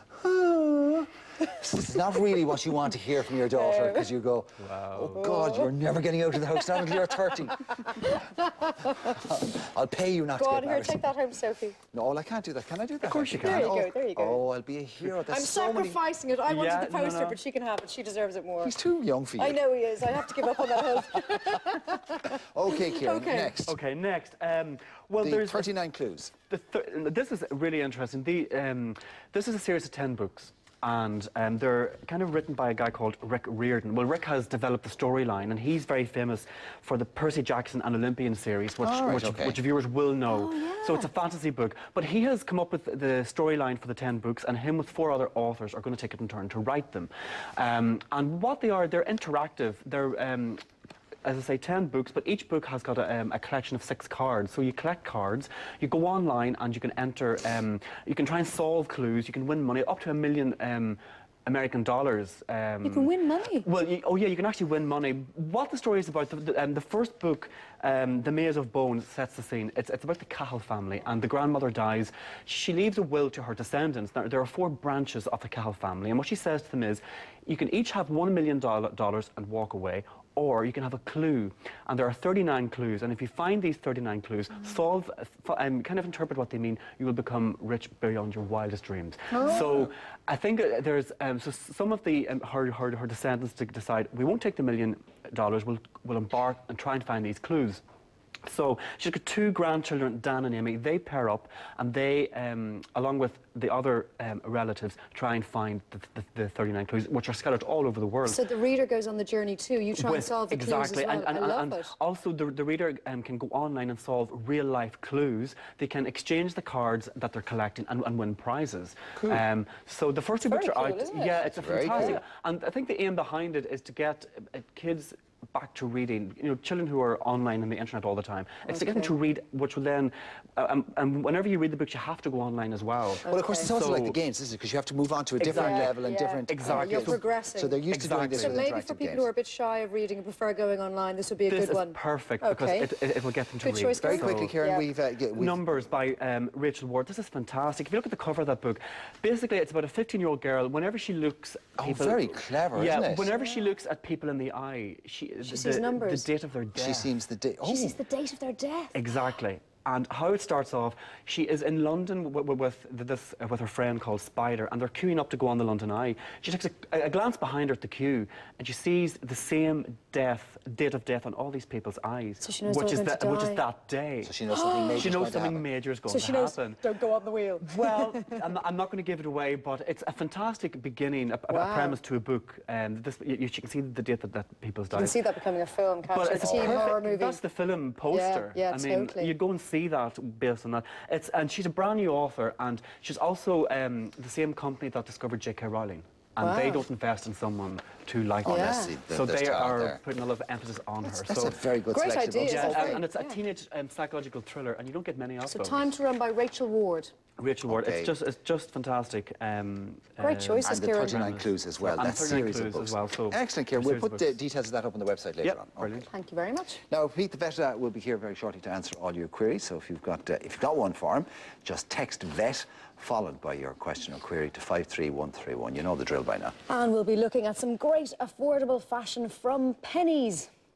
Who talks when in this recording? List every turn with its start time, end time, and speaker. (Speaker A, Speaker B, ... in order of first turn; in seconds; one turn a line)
Speaker A: 0.1-8.2
Speaker B: 3.5-4.1
Speaker C: 4.6-5.2
Speaker B: 5.2-5.7
Speaker B: 6.4-9.1
Speaker A: 8.8-11.1
Speaker B: 10.3-11.8
Speaker A: 11.9-16.0
Speaker C: 13.0-13.8
Speaker B: 13.4-14.4
Speaker B: 15.3-18.8
Speaker C: 16.5-17.4
Speaker A: 18.6-19.6
Speaker B: 19.4-23.5
Speaker A: 22.4-23.8
Speaker C: 23.6-25.7
Speaker A: 25.2-26.3
Speaker C: 26.5-50.6
Speaker A: 38.8-39.6
Speaker B: 40.3-41.1
Speaker C: 51.2-63.1
Speaker B: 62.8-63.6
Speaker C: 63.6-97.8
Speaker B: 89.3-89.8
Speaker C: 98.5-108.4
Speaker B: 108.2-111.9
Speaker C: 110.0-134.2
Speaker A: 119.2-119.4
Speaker B: 120.5-122.2
Speaker A: 121.5-122.2
Speaker B: 128.7-129.1
Speaker B: 133.2-133.7
Speaker A: 133.2-139.3
Speaker C: 135.4-137.2
Speaker B: 135.5-137.8
Speaker C: 137.9-138.6
Speaker B: 138.3-142.9
Speaker C: 141.5-144.6
Speaker B: 143.6-144.9
Speaker A: 144.0-145.6
Speaker C: 145.3-157.2
Speaker A: 151.8-153.3
Speaker B: 153.2-153.7
Speaker B: 155.4-156.3
Speaker A: 156.7-157.9
Speaker B: 157.6-159.1
Speaker C: 158.9-174.3
Speaker B: 172.4-173.6
Speaker A: 174.2-175.6
Speaker B: 174.5-175.1
Speaker C: 174.9-176.8
Speaker B: 176.1-178.4
Speaker C: 177.6-185.2
Speaker B: 181.5-182.0
Speaker B: 184.9-187.4
Speaker C: 186.1-201.6
Speaker A: 186.4-186.9
Speaker B: 188.1-189.3
Speaker B: 196.4-196.8
Speaker B: 198.4-198.9
Speaker A: 198.4-200.0
Speaker A: 201.2-203.0
Speaker B: 201.9-203.4
Speaker C: 202.4-205.9
Speaker B: 205.4-207.1
Speaker C: 207.4-214.3
Speaker A: 207.7-208.1
Speaker B: 210.2-211.2
Speaker A: 210.6-216.0
Speaker C: 215.4-216.1
Speaker B: 216.1-216.8
Speaker A: 216.9-226.5
Speaker B: 226.7-230.5